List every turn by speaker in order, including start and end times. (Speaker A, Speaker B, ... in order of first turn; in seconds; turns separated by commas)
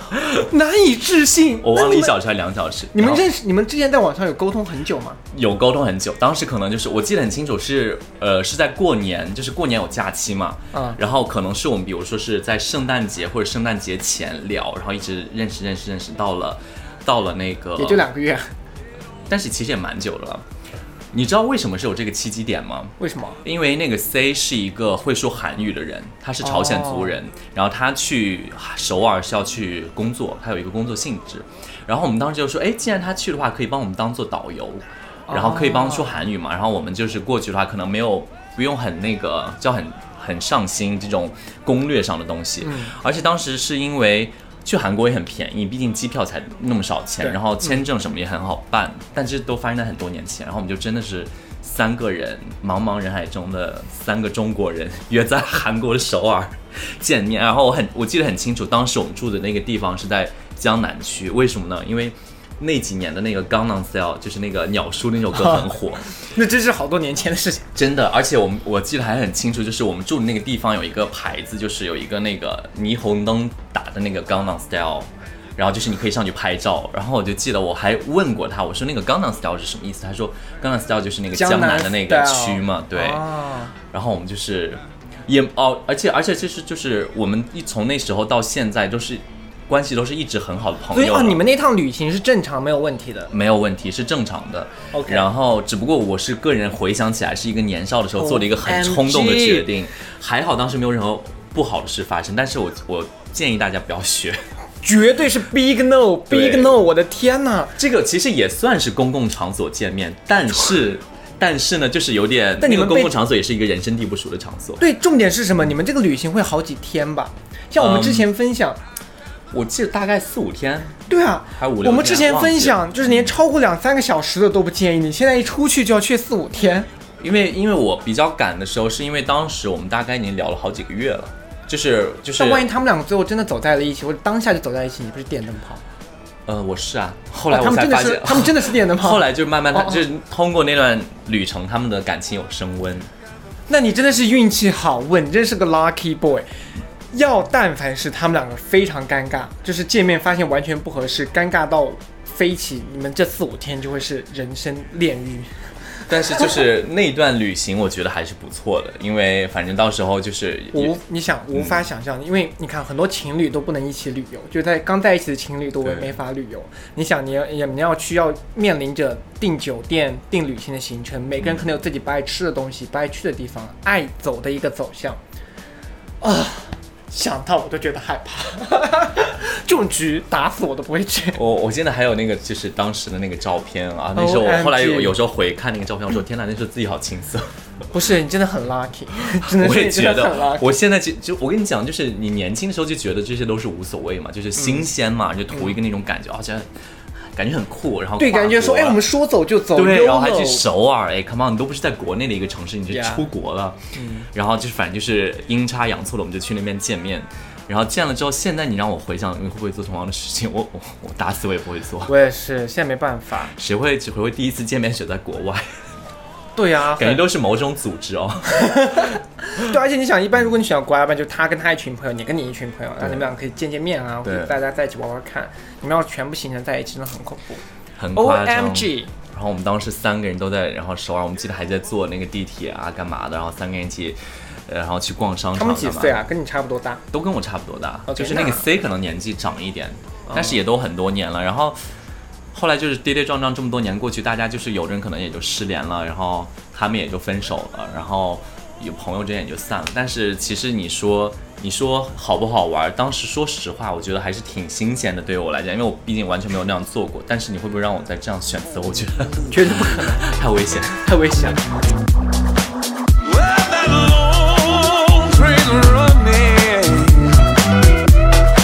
Speaker A: 0.3-2.2, Speaker B: 1.6-3.2, Speaker A: 2.9-5.2, Speaker B: 5.3-18.1, Speaker A: 10.7-11.0, Speaker A: 17.8-18.5, Speaker B: 19.3-20.4, Speaker B: 21.1-66.1, Speaker A: 23.0-23.4, Speaker A: 26.4-27.2, Speaker A: 35.3-36.1, Speaker A: 42.6-42.9, Speaker A: 66.2-67.7, Speaker B: 67.7-83.3, Speaker A: 81.3-83.7, Speaker B: 83.9-91.4, Speaker A: 90.9-93.3, Speaker B: 93.3-104.4, Speaker A: 94.9-95.2, Speaker A: 98.2-99.7, Speaker A: 104.8-107.8, Speaker B: 106.3-106.8, Speaker B: 107.8-114.8, Speaker A: 112.6-113.1, Speaker A: 114.8-118.8, Speaker B: 117.8-118.3, Speaker B: 119.5-121.0, Speaker A: 121.1-126.9, Speaker B: 121.5-123.3, Speaker B: 127.2-132.7, Speaker A: 132.4-135.8, Speaker B: 136.5-143.1, Speaker A: 137.5-140.0, Speaker A: 143.7-146.5, Speaker A: 147.1-156.1, Speaker B: 156.1-161.0, Speaker A: 160.7-175.2, Speaker B: 161.5-161.8, Speaker B: 165.8-166.1, Speaker A: 176.2-181.4, Speaker B: 181.3-187.5, Speaker A: 184.1-185.1, Speaker A: 187.9-190.7, Speaker B: 189.3-196.7, Speaker B: 197.3-199.0, Speaker A: 198.2-200.7, Speaker B: 199.7-203.8, Speaker A: 202.9-203.2, Speaker A: 203.9-204.3, Speaker B: 204.3-212.1, Speaker A: 212.1-213.5, Speaker B: 213.5-215.6, Speaker A: 216.6-217.2, Speaker B: 216.9-219.2, Speaker A: 218.6-227.6, Speaker B: 223.0-223.2, Speaker B: 224.2-224.5, Speaker B: 228.0-236.2, Speaker A: 228.1-229.1, Speaker A: 235.6-237.0, Speaker B: 237.1-241.8, Speaker A: 238.1-238.7, Speaker A: 240.3-240.6, Speaker B: 242.5-261.1, Speaker A: 259.5-260.2, Speaker A: 261.0-261.6, Speaker C: 263.4-267.3